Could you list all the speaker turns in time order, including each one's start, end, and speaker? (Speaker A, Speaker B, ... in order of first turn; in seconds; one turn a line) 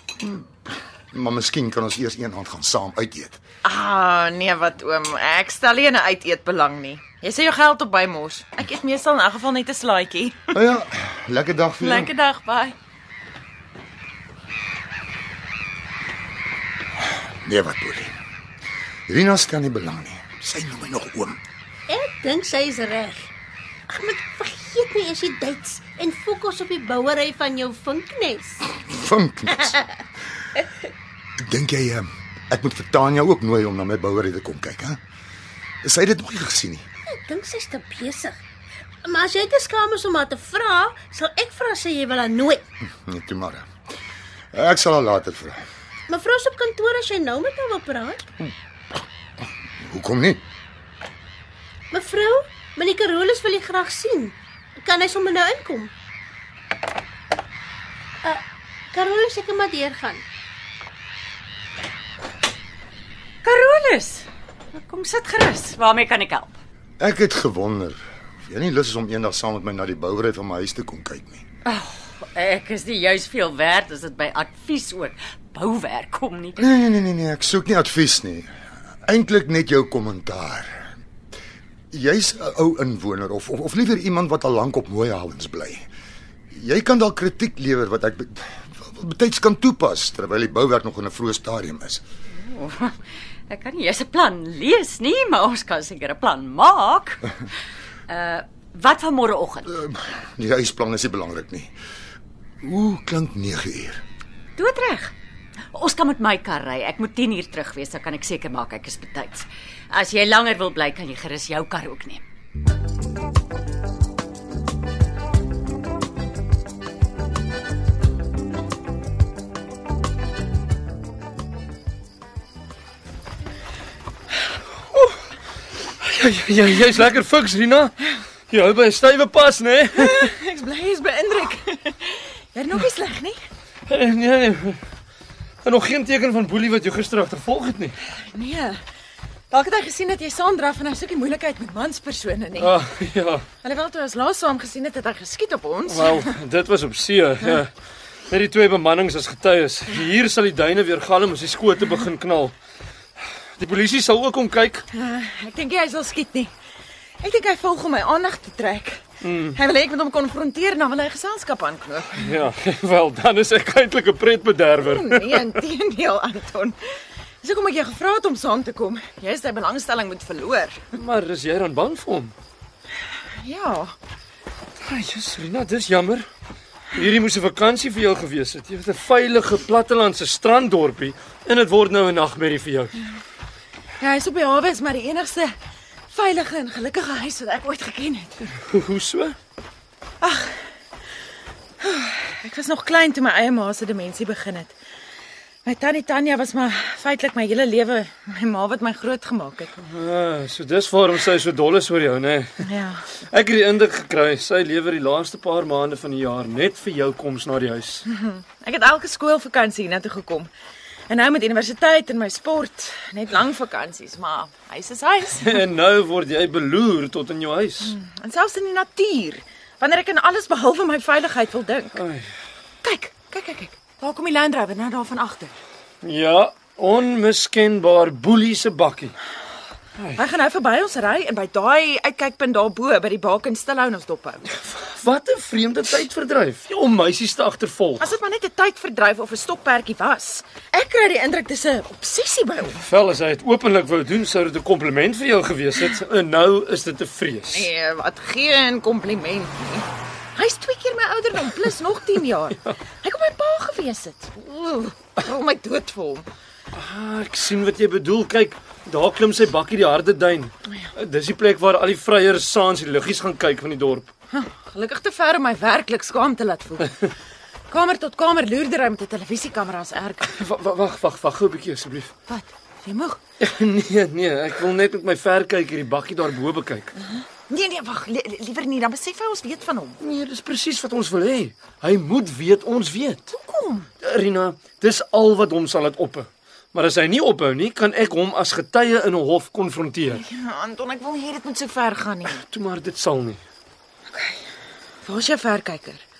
Speaker A: 0.2-3.4
Speaker B: 3.6-10.5
Speaker A: 10.5-12.1
Speaker B: 11.8-12.8
Speaker A: 17.4-18.1
Speaker A: 19.1-21.4
Speaker C: 21.9-23.3
Speaker C: 23.9-28.7
Speaker A: 28.8-29.8
Speaker C: 29.6-29.9
Speaker A: 31.4-35.0
Speaker A: 35.8-36.9
Speaker C: 37.1-38.4
Speaker C: 39.0-42.6
Speaker A: 43.0-43.7
Speaker A: 44.5-45.6
Speaker C: 46.1-48.2
Speaker A: 49.8-50.4
Speaker C: 51.9-55.9
Speaker C: 58.9-60.2
Speaker D: 63.4-66.6
Speaker A: 67.0-71.4
Speaker D: 71.7-76.6
Speaker A: 76.6-78.5
Speaker A: 79.0-80.9
Speaker A: 81.9-85.9
Speaker A: 86.5-92.0
Speaker D: 92.4-93.0
Speaker D: 93.5-97.2
Speaker D: 98.1-99.7
Speaker A: 99.7-101.8
Speaker A: 102.6-104.0
Speaker D: 104.6-105.1
Speaker D: 105.7-112.2
Speaker E: 124.9-125.2
Speaker E: 126.0-130.3
Speaker B: 129.9-133.4
Speaker E: 133.9-134.8
Speaker E: 135.6-138.0
Speaker B: 138.1-138.8
Speaker B: 139.5-142.7
Speaker E: 142.6-143.4
Speaker B: 143.6-146.3
Speaker E: 145.9-147.7
Speaker E: 148.3-152.6
Speaker E: 153.6-154.8
Speaker B: 154.9-156.5
Speaker B: 157.2-162.2
Speaker E: 159.2-159.6
Speaker E: 162.2-165.6
Speaker B: 164.8-166.8
Speaker B: 167.4-170.9
Speaker E: 171.0-172.3
Speaker B: 173.4-173.9
Speaker E: 174.8-176.3
Speaker E: 176.9-183.0
Speaker B: 184.0-185.5
Speaker B: 186.1-188.5
Speaker E: 188.7-189.4
Speaker B: 190.2-190.7
Speaker B: 191.8-194.7
Speaker B: 195.7-199.7
Speaker E: 199.8-202.6
Speaker B: 202.7-203.0
Speaker E: 203.3-208.1
Speaker B: 208.1-210.5
Speaker B: 211.1-215.6
Speaker E: 215.4-217.9
Speaker B: 217.8-222.0
Speaker E: 221.9-222.3
Speaker B: 222.8-225.6
Speaker E: 226.0-229.2
Speaker E: 230.0-230.2
Speaker B: 230.2-234.4
Speaker E: 234.5-238.1
Speaker B: 238.0-242.8
Speaker E: 242.8-247.7
Speaker B: 247.4-256.3
Speaker E: 256.7-264.1
Speaker B: 264.3-266.9
Speaker B: 267.7-270.3
Speaker E: 270.2-272.1
Speaker B: 272.3-273.2
Speaker E: 273.4-276.9
Speaker B: 277.0-280.0
Speaker E: 280.0-283.3
Speaker B: 283.3-283.9
Speaker E: 284.0-290.2
Speaker B: 290.1-292.4
Speaker E: 292.3-293.4
Speaker B: 294.1-294.4
Speaker B: 295.0-296.0